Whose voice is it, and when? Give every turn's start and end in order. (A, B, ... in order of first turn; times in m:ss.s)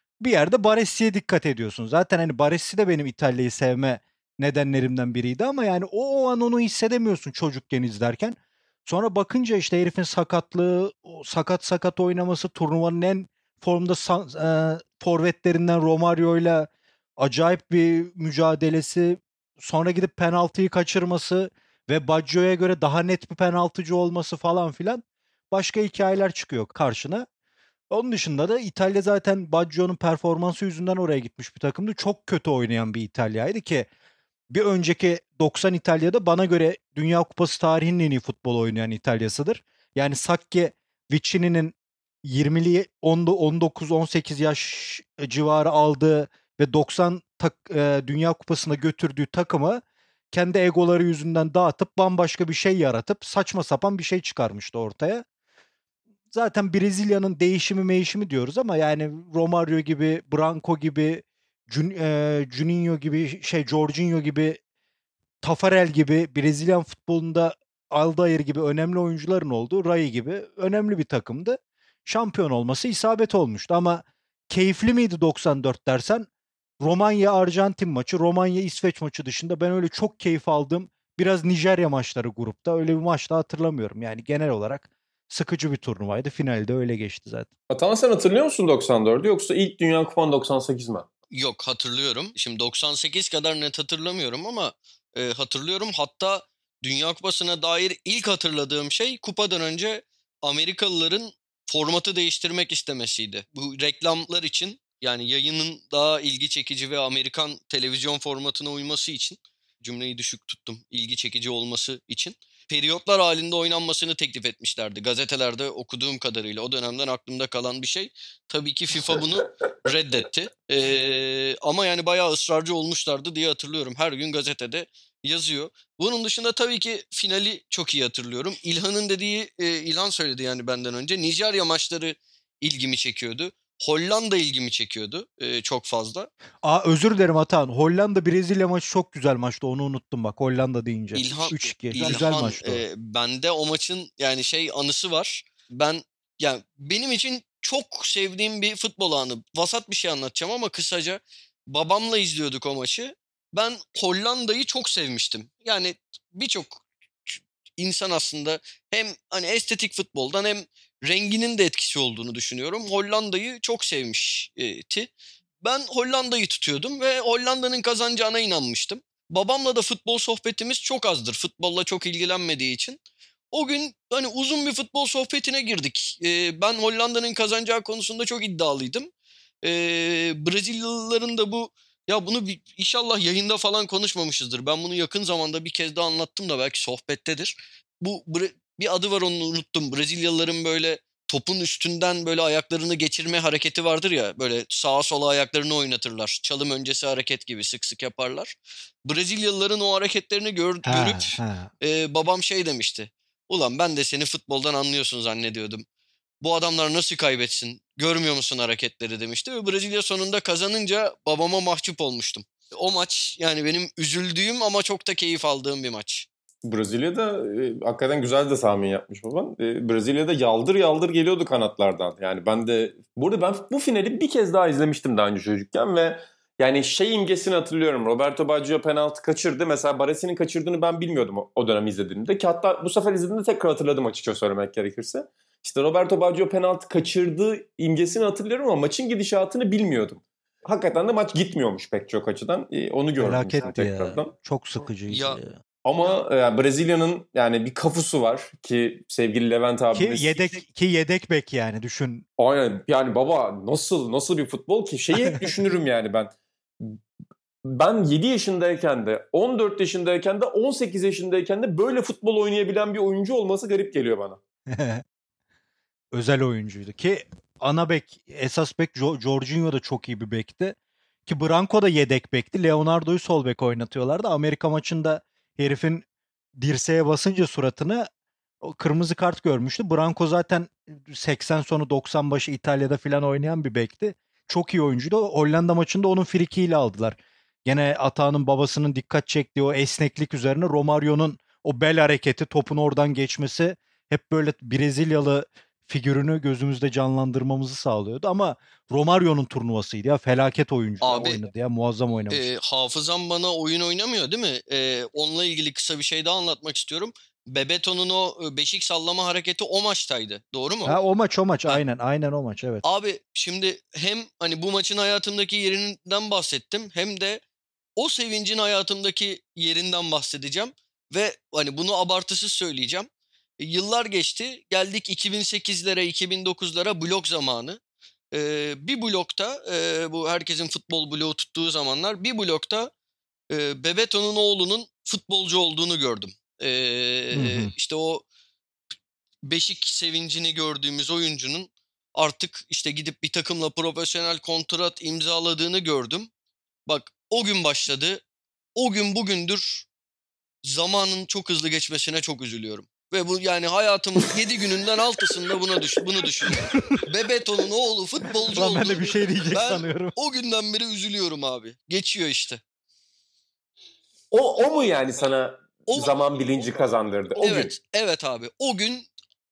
0:00.2-0:27.3 A
0:27.9-0:33.9 A
0:34.5-0:55.2 A
0:56.3-1:04.6 A
1:05.4-1:16.3 A
1:16.8-1:27.5 A
1:27.7-1:31.1 B
1:31.3-2:16.3 C
2:16.6-2:22.8 A
2:21.1-2:45.1 C
2:45.6-2:53.0 C
2:53.5-2:59.1 C
2:59.6-3:25.8 C
3:20.9-3:21.7 A
3:26.4-3:36.3 C
3:36.6-4:04.3 B
4:03.2-4:05.6 A
4:05.1-4:05.4 C
4:05.8-4:10.5 B
4:09.9-4:12.3 A
4:12.4-4:17.0 B
4:17.6-4:24.4 B
4:24.7-4:25.0 A
4:26.1-4:36.0 A
4:36.6-4:38.1 A
4:38.6-5:02.5 A
5:01.0-5:01.4 C
5:02.3-5:11.0 C
5:10.8-5:12.8 A
5:12.8-5:17.4 C
5:18.0-5:23.1 C
5:23.6-5:27.8 C
5:28.3-5:32.9 C
5:33.5-5:38.2 C
5:37.3-5:37.7 A
5:39.4-5:46.3 C
5:46.9-5:48.2 C
5:48.8-5:49.9 C
5:50.6-5:59.0 C
5:56.6-5:57.0 A
5:58.5-6:00.1 A
5:59.5-6:02.6 C
6:04.3-6:07.7 B
6:05.9-6:06.2 C
6:07.4-6:09.1 C